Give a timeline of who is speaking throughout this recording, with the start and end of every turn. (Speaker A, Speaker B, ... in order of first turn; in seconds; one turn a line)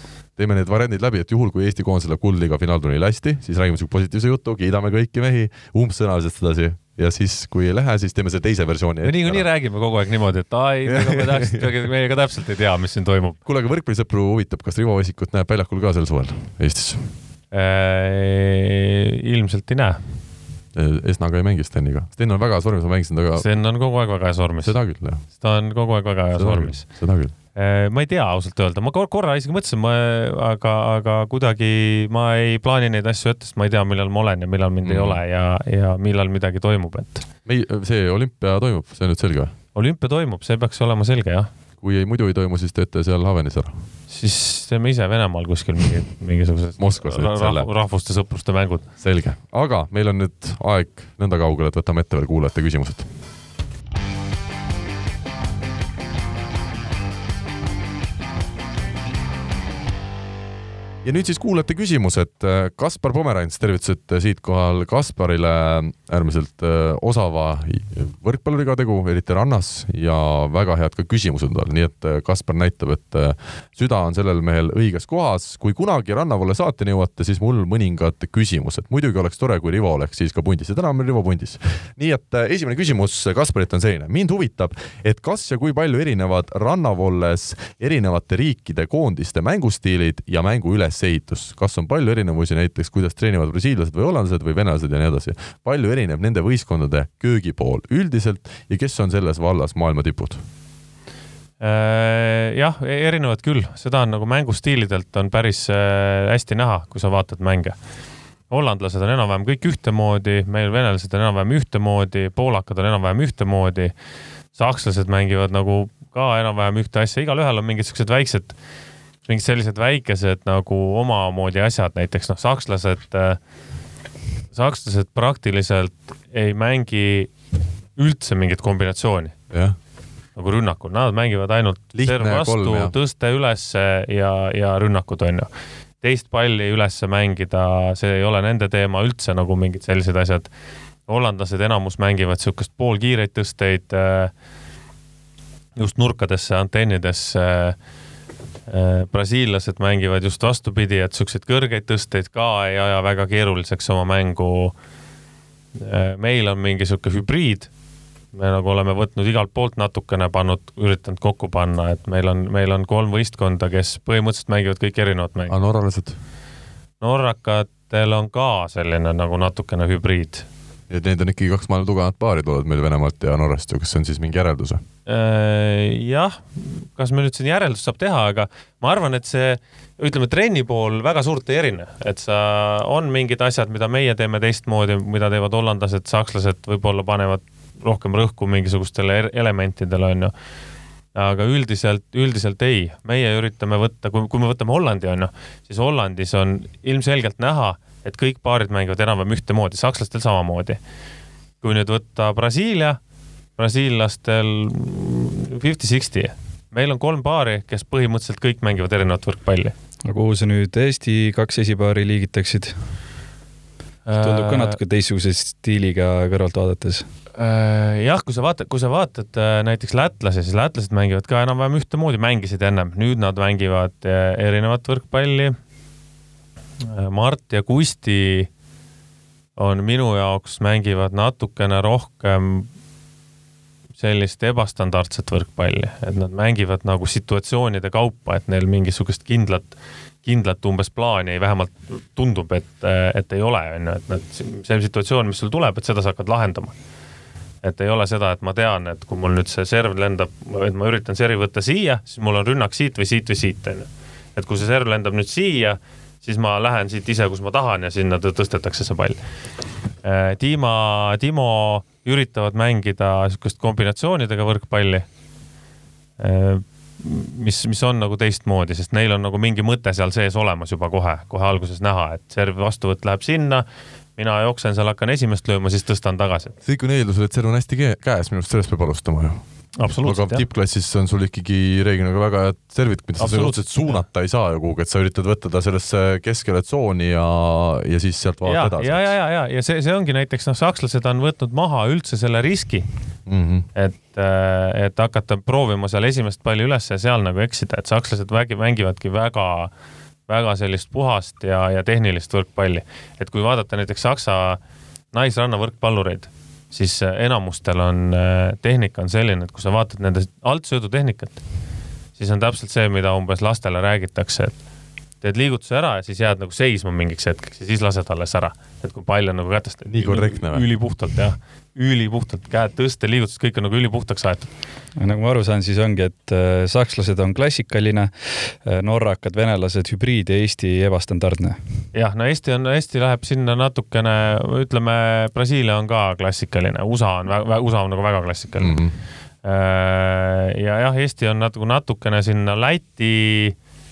Speaker A: 0.3-9.4
Speaker B: 9.0-13.4
Speaker A: 10.9-11.7
Speaker A: 13.4-17.1
Speaker B: 17.5-20.0
Speaker A: 20.7-23.4
Speaker B: 23.4-26.9
Speaker A: 24.6-25.2
Speaker A: 26.3-27.3
Speaker B: 27.5-37.2
Speaker A: 34.8-35.2
Speaker A: 37.4-39.5
Speaker B: 39.7-41.5
Speaker A: 41.8-43.7
Speaker B: 44.1-48.9
Speaker A: 46.8-47.7
Speaker A: 49.0-53.1
Speaker A: 61.0-100.4
Speaker B: 101.6-107.7
Speaker B: 108.5-113.9
Speaker B: 114.5-118.5
Speaker B: 119.2-123.4
Speaker B: 124.5-127.3
Speaker B: 128.0-129.3
Speaker B: 130.3-135.5
Speaker A: 131.9-132.9
Speaker B: 136.0-140.5
Speaker B: 141.1-144.3
Speaker B: 145.8-147.7
Speaker B: 148.7-154.7
Speaker B: 155.8-157.7
Speaker B: 158.3-165.6
Speaker A: 165.5-166.1
Speaker B: 167.0-170.4
Speaker A: 170.9-174.8
Speaker B: 175.1-190.3
Speaker B: 191.1-200.8
Speaker B: 201.6-203.0
Speaker B: 203.6-209.7
Speaker C: 210.0-212.8
Speaker B: 214.1-214.8
Speaker C: 214.1-217.1
Speaker B: 217.4-225.5
Speaker B: 226.8-228.5
Speaker B: 229.6-232.7
Speaker B: 234.0-246.7
Speaker B: 247.6-259.2
Speaker B: 260.0-265.0
Speaker B: 266.2-273.6
Speaker B: 274.2-276.5
Speaker A: 276.6-279.4
Speaker B: 279.8-280.4
Speaker A: 280.0-289.1
Speaker B: 283.2-284.0
Speaker B: 288.4-292.9
Speaker A: 293.3-293.7
Speaker B: 293.7-299.7
Speaker B: 300.3-304.6
Speaker B: 305.1-311.4
Speaker B: 312.2-314.6
Speaker B: 315.2-324.5
Speaker A: 319.9-320.6
Speaker C: 325.0-331.6
Speaker B: 331.9-338.8
Speaker A: 338.6-338.9
Speaker B: 339.4-343.6